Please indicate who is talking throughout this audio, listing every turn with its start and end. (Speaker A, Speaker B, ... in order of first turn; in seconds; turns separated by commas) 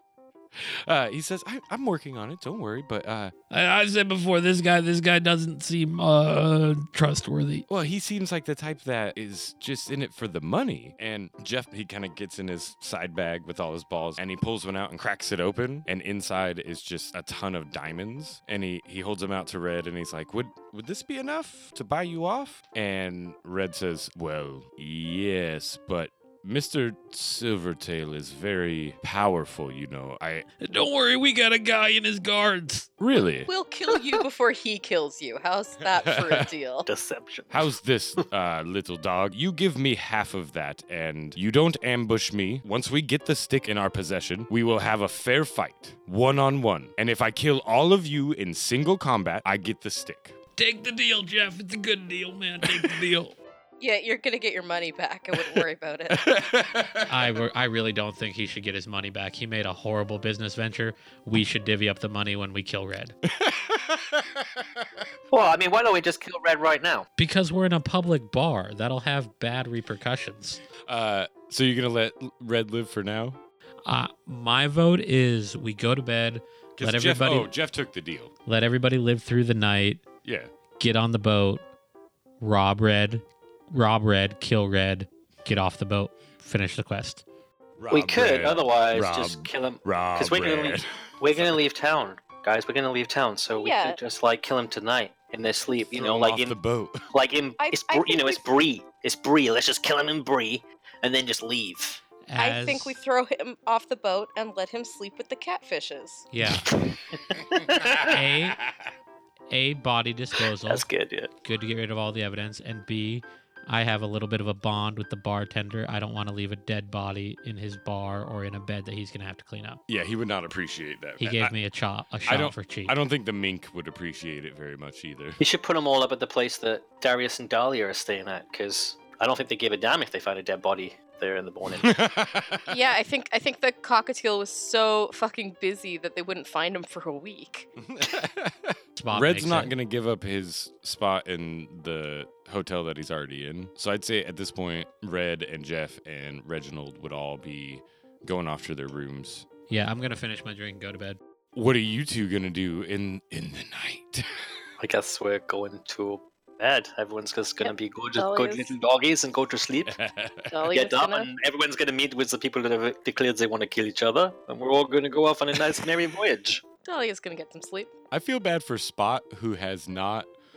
Speaker A: 0.6-3.3, Speaker B: 3.5-7.7, Speaker A: 7.7-30.5, Speaker B: 30.6-32.9, Speaker A: 33.0-33.5, Speaker C: 33.5-36.9, Speaker A: 35.8-36.5, Speaker D: 36.9-37.7, Speaker A: 37.5-50.4, Speaker B: 50.6-53.4, Speaker A: 52.6-53.0, Speaker C: 53.8-56.2, Speaker A: 55.4-57.3, Speaker E: 57.1-63.2, Speaker A: 63.3-64.9, Speaker D: 65.3-67.1, Speaker E: 67.2-70.6, Speaker A: 70.9-73.4, Speaker E: 73.9-77.5, Speaker A: 76.8-78.3, Speaker E: 78.5-80.0, Speaker A: 80.2-80.5, Speaker E: 80.8-81.6, Speaker E: 82.4-87.2, Speaker A: 87.8-91.6, Speaker D: 87.9-96.6, Speaker C: 93.6-94.0, Speaker A: 95.9-97.1, Speaker D: 97.1-102.0, Speaker C: 97.6-98.5, Speaker E: 102.3-103.0, Speaker C: 102.4-106.3, Speaker E: 106.3-106.7, Speaker D: 106.5-108.2, Speaker A: 107.8-108.9, Speaker E: 108.1-108.6, Speaker E: 109.5-110.9, Speaker D: 110.7-111.3, Speaker E: 111.4-119.8, Speaker A: 119.9-121.5, Speaker E: 121.2-123.0, Speaker A: 122.3-125.4, Speaker D: 125.4-131.9, Speaker A: 131.8-132.7, Speaker C: 132.7-137.7, Speaker A: 137.8-149.5, Speaker E: 139.0-139.7, Speaker E: 149.7-151.2, Speaker A: 151.6-154.3, Speaker D: 154.8-160.0, Speaker C: 157.6-158.7, Speaker A: 159.9-160.7, Speaker C: 160.5-161.3, Speaker D: 160.7-166.6, Speaker C: 166.8-167.9, Speaker A: 168.1-170.3